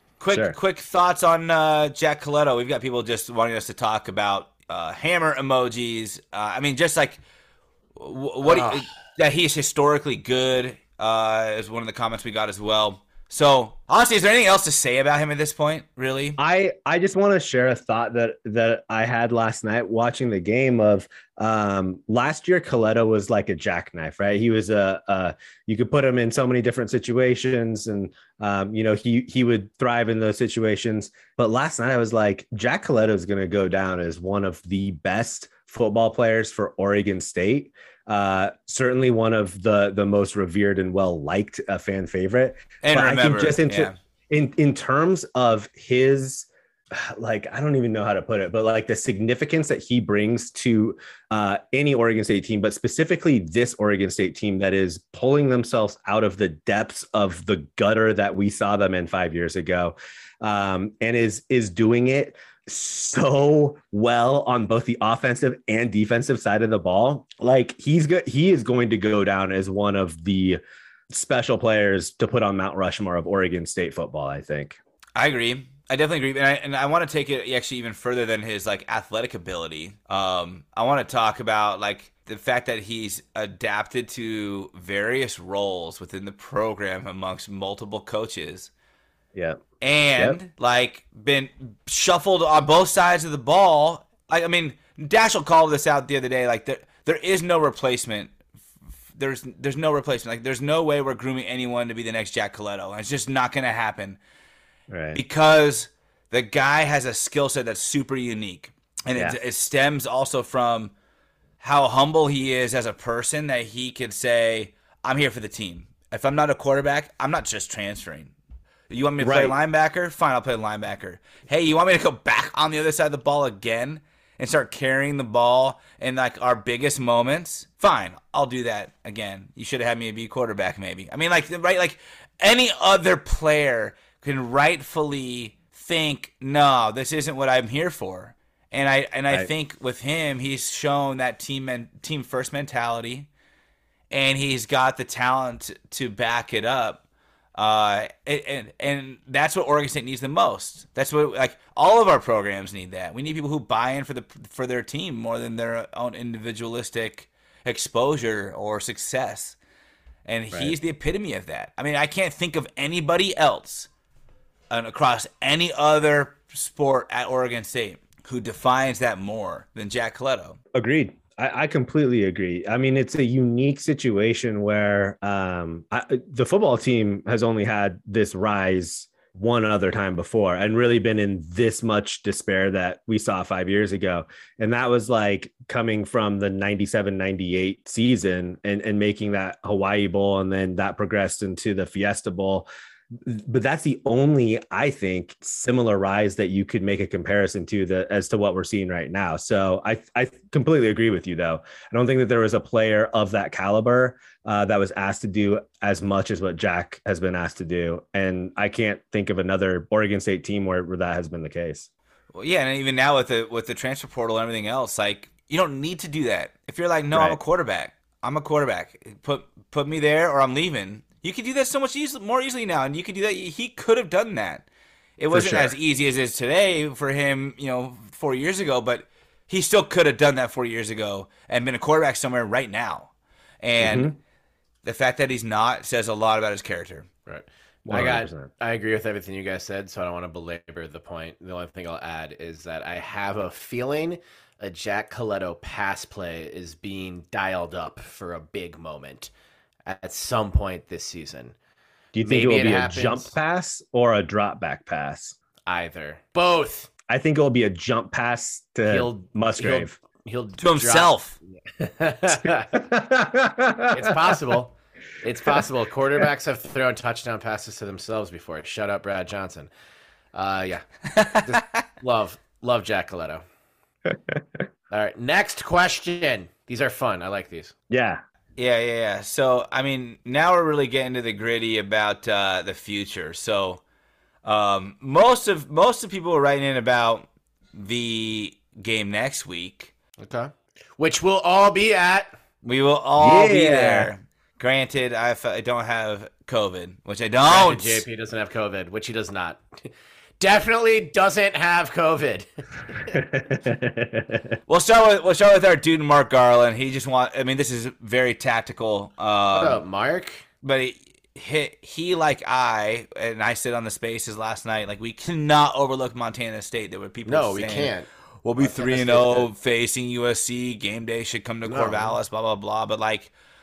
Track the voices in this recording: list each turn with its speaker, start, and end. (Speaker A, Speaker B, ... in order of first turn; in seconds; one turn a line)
Speaker A: 0.2-7.2
Speaker B: 0.3-0.6
Speaker A: 8.0-16.4
Speaker C: 8.5-8.8
Speaker B: 16.4-74.8
Speaker A: 42.8-44.0
Speaker A: 75.2-88.7
Speaker B: 89.3-89.6
Speaker A: 89.8-98.3
Speaker A: 99.2-104.2
Speaker B: 104.9-105.2
Speaker A: 105.1-110.9
Speaker A: 111.6-118.3
Speaker A: 118.9-143.3
Speaker B: 119.2-119.6
Speaker A: 144.1-147.0
Speaker A: 147.6-159.6
Speaker A: 160.3-163.9
Speaker A: 164.7-170.6
Speaker B: 170.7-192.7
Speaker B: 193.2-211.9
Speaker A: 212.3-224.6
Speaker B: 217.1-217.4
Speaker A: 225.2-233.1
Speaker B: 225.3-225.7
Speaker A: 233.6-234.1
Speaker B: 233.8-234.1
Speaker A: 234.8-237.1
Speaker C: 237.3-249.3
Speaker B: 237.9-238.5
Speaker C: 249.9-251.6
Speaker B: 252.1-255.3
Speaker C: 252.2-253.3
Speaker C: 255.7-256.9
Speaker B: 257.1-259.9
Speaker C: 258.9-262.7
Speaker A: 260.6-261.4
Speaker B: 262.7-264.6
Speaker C: 263.9-269.7
Speaker C: 270.3-273.4
Speaker A: 271.1-271.8
Speaker B: 274.1-274.4
Speaker C: 274.9-277.7
Speaker B: 277.9-278.2
Speaker A: 278.6-283.8
Speaker A: 284.4-289.9
Speaker C: 290.2-292.3
Speaker A: 292.6-298.0
Speaker B: 293.2-294.1
Speaker C: 297.5-299.9
Speaker C: 300.4-303.0
Speaker B: 303.1-304.5
Speaker A: 304.7-309.8
Speaker C: 309.5-310.4
Speaker A: 310.6-323.3
Speaker C: 317.3-318.1
Speaker C: 318.6-319.5
Speaker C: 321.7-322.1